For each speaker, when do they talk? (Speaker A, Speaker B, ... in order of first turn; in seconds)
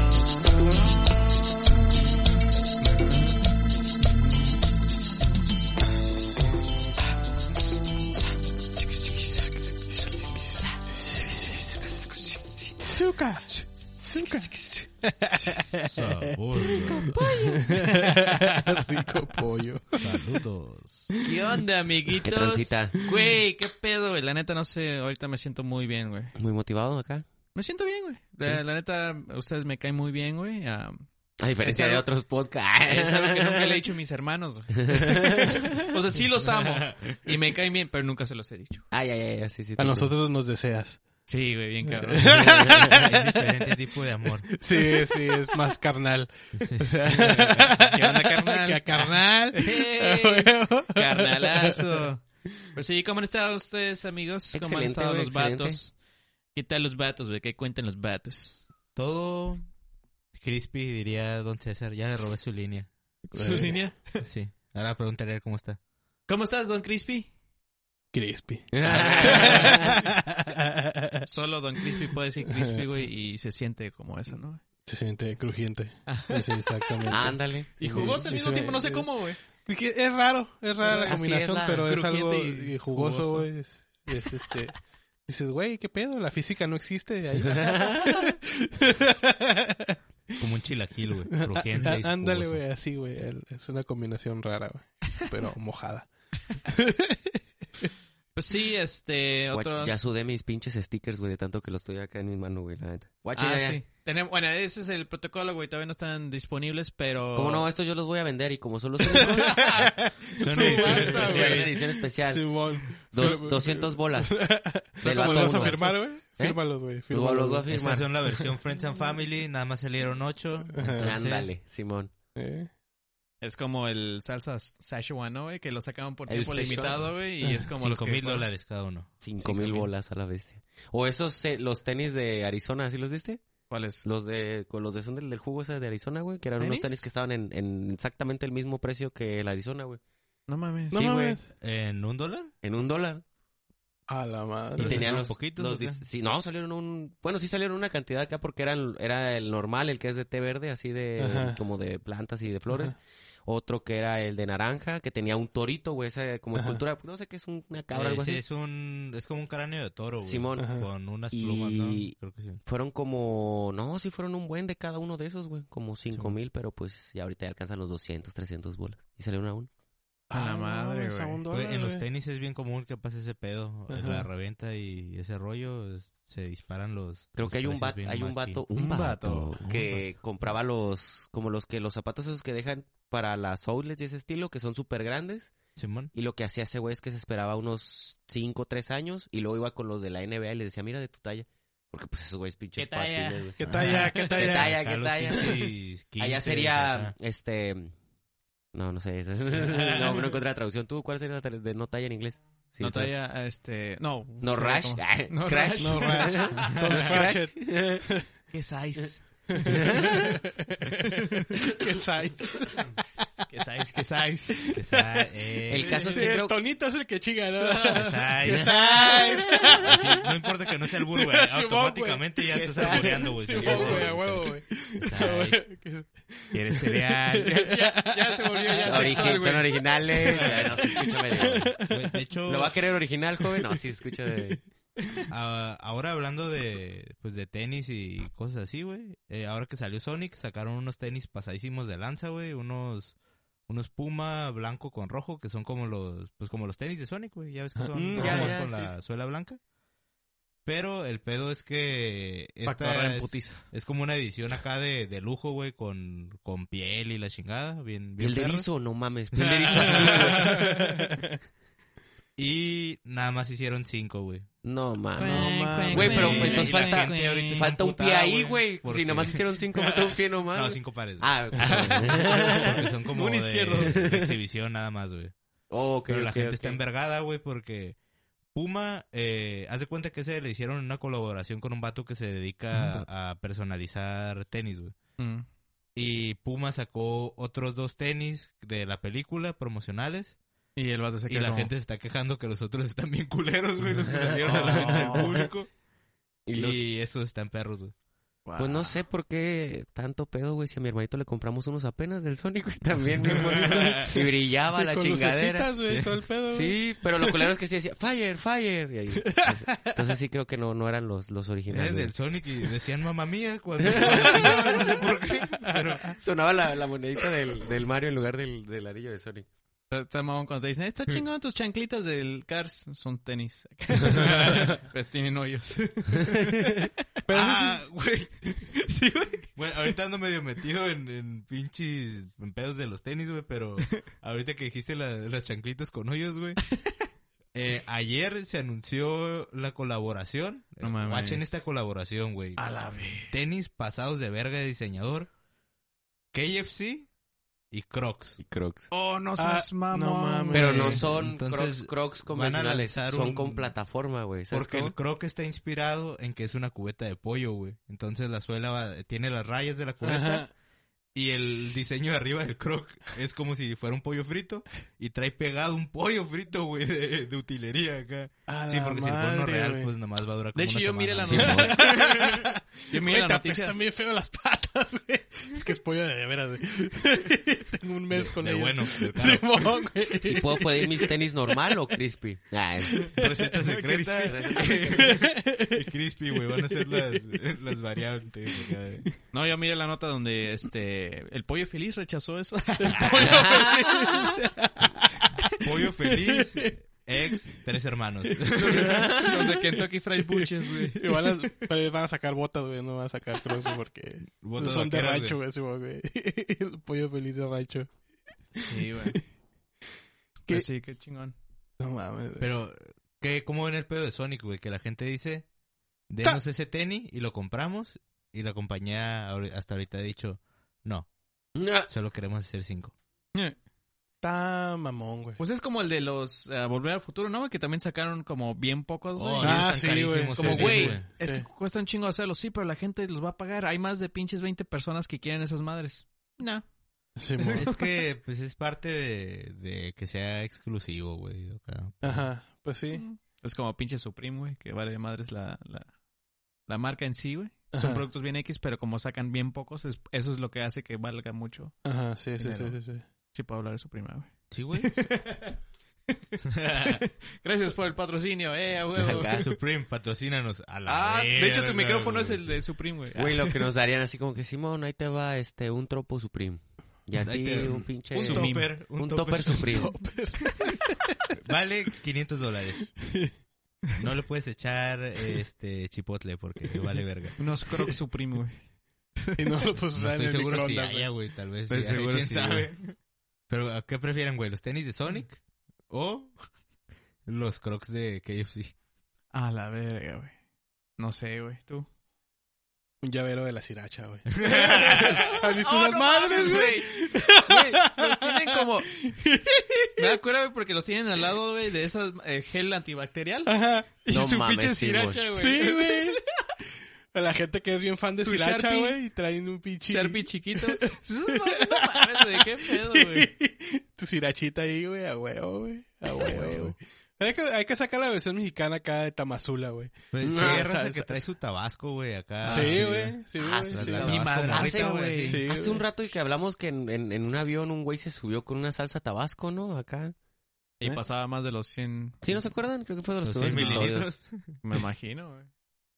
Speaker A: 9.0-10.7, 11.4-12.8, 14.1-15.6, 17.0-19.2, 21.2-26.3, 27.5-31.0, 31.6-32.1, 32.8-38.9, 41.3-42.5, 47.1-55.9, 56.5-58.6, 63.3-64.2, 66.3-67.3, 68.8-69.9, 71.2-74.6, 76.1-79.4, 81.8-83.5, 98.3-100.0, 103.3-107.7, 109.4-111.7, 115.0-116.0, 123.4-128.5, 129.4-129.9, 133.7-134.0, 136.6-137.1, 140.5-141.0, 170.3-171.4, 178.7-180.0, 192.8-194.3, 202.8-207.2, 208.5-210.1, 211.0-211.4, 213.5-214.8, 217.6-218.0, 226.5-229.9, 231.4-231.9, 252.6-253.6, 260.0-260.6, 265.1-267.7, 271.6-274.0, 285.2-285.4, 290.8-291.7, 294.4-295.3, 298.4-299.0, 319.9-326.8, 328.6-329.5, 340.8-341.6, 342.6-343.3, 348.9-351.0, 370.5-373.7, 383.8-384.3, 389.3-393.8, 398.6-401.7, 408.5-409.2, 410.5-411.4, 425.4-429.8, 430.3-436.6, 437.4-437.9, 442.9-445.9, 446.7-451.7, 452.4-452.8, 453.3-455.6, 456.1-459.3, 460.9-463.6, 468.1-468.7, 477.4-478.6, 479.2-479.4, 481.7-482.8, 489.3-490.3, 491.0-491.9, 494.6-498.9, 500.0-506.2, 508.2-509.0, 509.9-513.3, 522.4-522.8, 524.0-525.4, 530.8-532.5, 533.4-533.9, 534.6-535.5
Speaker B: 11.1-11.6, 12.8-20.1, 39.8-41.0, 42.1-43.5, 44.5-51.8, 63.3-63.8, 68.1-71.3, 71.8-72.8, 74.8-79.1, 79.6-90.0, 91.4-96.1, 96.6-97.9, 109.1-117.7, 120.7-121.2, 122.3-122.7, 140.9-141.5, 144.1-145.2, 151.2-151.6, 156.5-156.8, 160.6-160.9, 170.3-172.0, 173.9-174.3, 193.6-194.7, 205.8-208.2, 209.6-213.3, 215.9-220.2, 221.1-229.5, 230.2-231.6, 247.7-248.6, 260.2-261.3, 265.2-266.6, 303.5-304.1, 304.7-307.4, 309.2-309.9, 314.0-315.0, 327.3-327.8, 349.4-351.0, 360.0-360.5, 368.5-369.9, 371.4-381.8, 382.9-383.7, 384.9-385.8, 386.5-387.2, 392.8-395.3, 396.0-396.7, 398.9-399.8, 400.3-407.9, 408.6-408.9, 411.8-412.5, 424.2-425.4, 429.4-431.4, 437.1-437.7, 442.0-443.0, 447.7-448.0, 451.8-453.0, 469.6-471.1, 473.0-473.3, 479.4-481.1, 493.0-500.2, 503.4-503.9, 505.3-506.2, 507.1-521.2, 522.5-524.2, 525.2-525.8
Speaker C: 15.8-17.2, 20.0-21.1, 36.6-37.1, 42.5-44.5, 46.5-47.4, 59.0-59.6, 60.3-62.9, 64.2-65.8, 90.4-92.6, 110.4-111.5, 117.7-121.5, 127.8-129.1, 141.5-142.5, 144.8-146.0, 157.9-162.6, 171.5-178.6, 185.8-186.1, 193.7-197.1, 199.6-200.3, 214.7-216.2, 217.9-224.4, 225.1-225.5, 230.2-230.9, 231.8-232.9, 235.3-243.2, 243.7-249.6, 250.6-258.7, 259.3-260.5, 262.4-264.5, 265.9-275.3, 276.1-278.0, 278.5-284.9, 285.9-290.4, 291.3-295.7, 296.5-297.9, 303.3-304.1, 311.7-316.2, 324.1-324.6, 327.3-328.5, 329.6-336.6, 337.5-342.7, 343.2-345.3, 346.3-347.1, 347.7-348.4, 350.8-353.7, 354.5-360.5, 361.1-371.8, 378.4-379.6, 383.1-389.1, 395.5-399.2, 404.4-405.4, 412.4-415.5, 416.1-421.1, 421.9-422.9, 429.2-431.1, 437.6-442.2, 454.5-455.1, 456.6-457.0, 459.1-462.6, 467.2-469.7, 471.3-472.9, 473.9-477.4, 479.9-482.9, 483.5-486.3, 487.2-488.7, 494.4-495.4, 516.3-516.7, 520.1-525.4, 533.2-534.6
Speaker D: 22.2-22.9, 26.4-27.2, 31.4-33.8, 34.8-35.9, 38.9-40.1, 42.2-42.9, 54.5-55.8, 68.7-70.0, 77.1-78.2, 80.8-81.9, 87.4-88.3, 99.5-103.8, 107.3-109.8, 110.6-114.4, 115.0-118.1, 120.9-122.1, 126.3-127.1, 129.2-133.4, 134.0-140.0, 140.9-141.4, 142.6-143.2, 144.8-158.4, 160.2-160.7, 161.3-169.7, 177.3-185.6, 186.1-193.6, 194.3-197.9, 198.7-203.1, 204.4-208.1, 209.7-210.4, 215.7-216.6, 219.1-219.8, 222.5-224.2, 225.1-225.5, 228.8-231.8, 232.5-234.6, 247.9-248.9, 258.2-260.7, 264.6-272.9, 273.8-274.3, 275.7-276.8, 294.3-295.5, 296.5-296.8, 298.6-305.7, 306.5-312.1, 313.8-314.7, 316.1-319.5, 326.2-326.7, 348.4-348.9, 350.5-354.9, 371.2-371.7, 380.3-383.0, 384.2-385.1, 393.3-393.8, 421.5-421.9, 458.9-459.5, 463.1-469.9, 504.1-505.3, 520.2-520.6, 523.4-530.1, 532.2-534.1